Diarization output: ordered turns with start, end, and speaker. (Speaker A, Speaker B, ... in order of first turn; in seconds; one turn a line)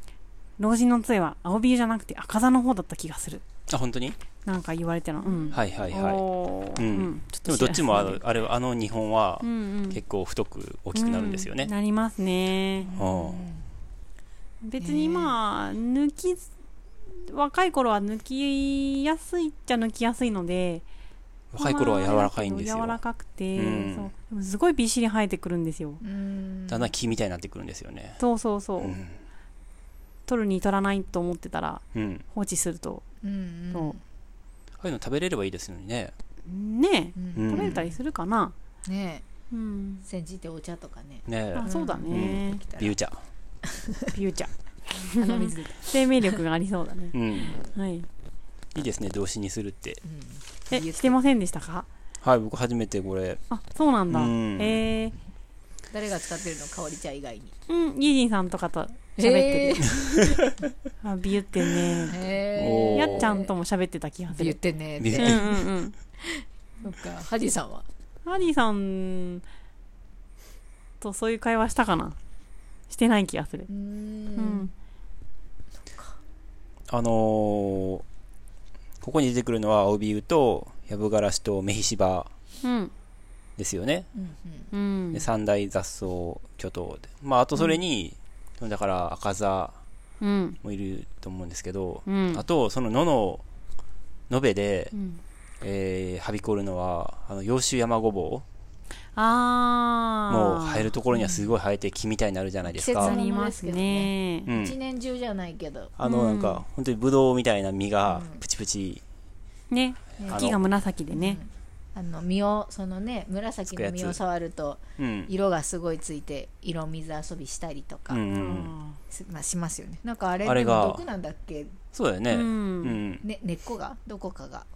Speaker A: 0.6-3.4
Speaker B: 3.7-4.2
Speaker A: 4.5-8.2
Speaker C: 5.2-5.6
Speaker B: 5.5-11.7
Speaker A: 9.4-10.0
Speaker A: 10.9-12.9
Speaker C: 12.8-13.7
Speaker B: 12.9-13.4
Speaker A: 14.6-16.5
Speaker C: 14.8-15.4
Speaker A: 17.1-20.9
Speaker B: 21.5-23.0
Speaker A: 21.6-26.0
Speaker B: 23.5-24.1
Speaker C: 26.0-26.9
Speaker B: 26.7-28.2
Speaker A: 28.2-29.0
Speaker B: 28.8-29.2
Speaker A: 30.3-33.0
Speaker B: 31.9-32.2
Speaker C: 33.2-34.0
Speaker B: 34.8-36.1
Speaker A: 36.5-38.5
Speaker C: 37.2-38.0
Speaker B: 37.4-37.9
Speaker C: 38.9-39.2
Speaker A: 39.5-40.0
Speaker C: 40.0-43.0
Speaker B: 41.3-43.2
Speaker A: 41.5-42.6
Speaker A: 44.1-48.1
Speaker C: 45.1-46.4
Speaker B: 47.1-47.6
Speaker B: 48.8-50.0
Speaker C: 50.0-51.2
Speaker A: 50.7-51.9
Speaker B: 52.2-53.4
Speaker A: 53.5-55.1
Speaker B: 54.1-54.8
Speaker C: 55.9-57.5
Speaker A: 57.7-59.9
Speaker C: 59.2-60.0
Speaker A: 61.0-62.2
Speaker C: 62.1-63.5
Speaker B: 62.5-63.3
Speaker A: 62.9-64.6
Speaker C: 64.3-65.7
Speaker B: 65.0-65.6
Speaker A: 65.1-66.0
Speaker C: 66.2-67.8
Speaker A: 68.2-69.4
Speaker A: 71.0-72.2
Speaker A: 72.9-73.7
Speaker C: 73.7-74.7
Speaker A: 74.4-74.7
Speaker C: 75.9-76.1
Speaker B: 76.9-78.0
Speaker B: 79.0-82.3
Speaker A: 82.6-82.9
Speaker B: 83.6-84.1
Speaker C: 84.1-84.7
Speaker A: 84.7-85.2
Speaker B: 85.1-89.8
Speaker A: 90.2-90.6
Speaker B: 90.6-93.4
Speaker A: 92.1-92.4
Speaker B: 94.3-94.9
Speaker A: 94.9-95.2
Speaker B: 95.6-98.5
Speaker A: 99.2-100.9
Speaker B: 100.3-103.2
Speaker C: 101.1-101.6
Speaker C: 102.7-105.9
Speaker A: 103.0-104.5
Speaker B: 104.5-104.8
Speaker B: 106.0-109.0
Speaker A: 106.0-106.6
Speaker C: 108.1-108.4
Speaker A: 109.7-111.4
Speaker C: 110.2-110.5
Speaker B: 110.2-110.6
Speaker C: 111.1-118.2
Speaker B: 113.7-114.2
Speaker B: 115.0-115.3
Speaker B: 118.1-118.7
Speaker A: 118.3-119.0
Speaker C: 119.1-121.8
Speaker B: 120.4-121.0
Speaker B: 121.9-123.2
Speaker A: 122.3-123.0
Speaker C: 123.2-124.7